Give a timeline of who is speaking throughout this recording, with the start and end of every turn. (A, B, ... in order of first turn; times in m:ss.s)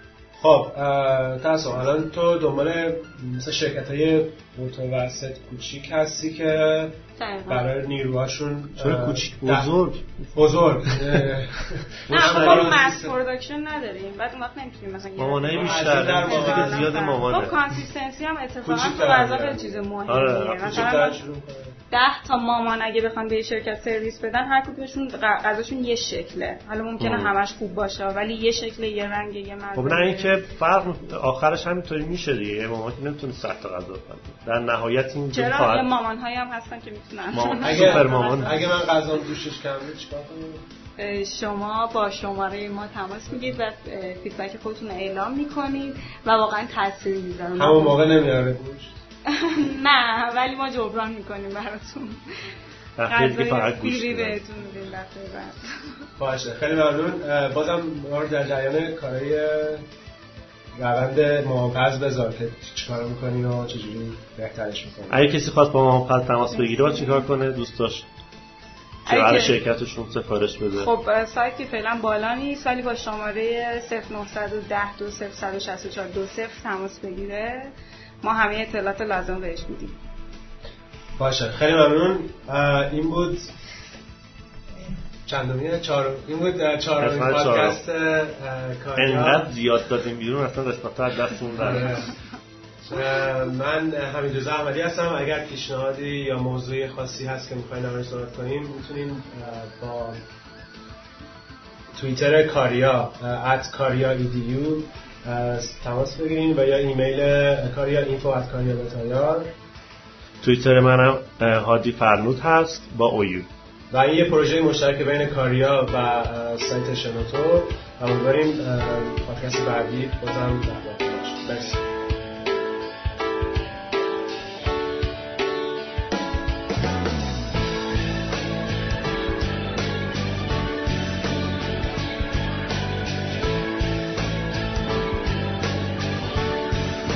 0:00.4-0:07.0 A
0:07.2-0:07.6 B
0:07.5-0:09.7 A
0:08.8-0:11.3 C
0:10.3-0:13.1 A
0:12.1-0:12.8 C
0:12.1-0:21.2 B
0:15.2-0:17.6 C
0:15.5-0:16.9 A
0:18.6-0:19.9 A
0:20.1-0:20.8 C
0:20.6-0:21.8 A
0:21.9-0:30.4 B
0:27.0-0:27.3 C
0:29.8-0:35.9 C
0:35.3-0:38.7 B
0:37.3-0:38.8 C
0:37.6-0:40.6 A
0:41.0-0:48.0 B
0:47.6-0:48.9 A
0:49.3-0:52.2 B
0:53.0-0:54.4 C
0:53.1-0:55.6 B
0:56.2-0:59.9 A
1:00.8-1:05.2 A
1:05.1-1:08.1 C
1:06.5-1:07.3 B
1:09.0-1:10.9 C
1:09.1-1:09.6 B
1:10.8-1:17.7 B
1:18.2-1:20.0 B
1:21.2-1:23.4 A
1:25.2-1:29.5 A
1:27.0-1:27.8 C
1:29.0-1:32.0 C
1:31.6-1:32.1 A
1:32.8-1:40.2 A
1:41.9-1:49.5 A
1:50.4-1:53.5 C
1:53.9-2:01.8 A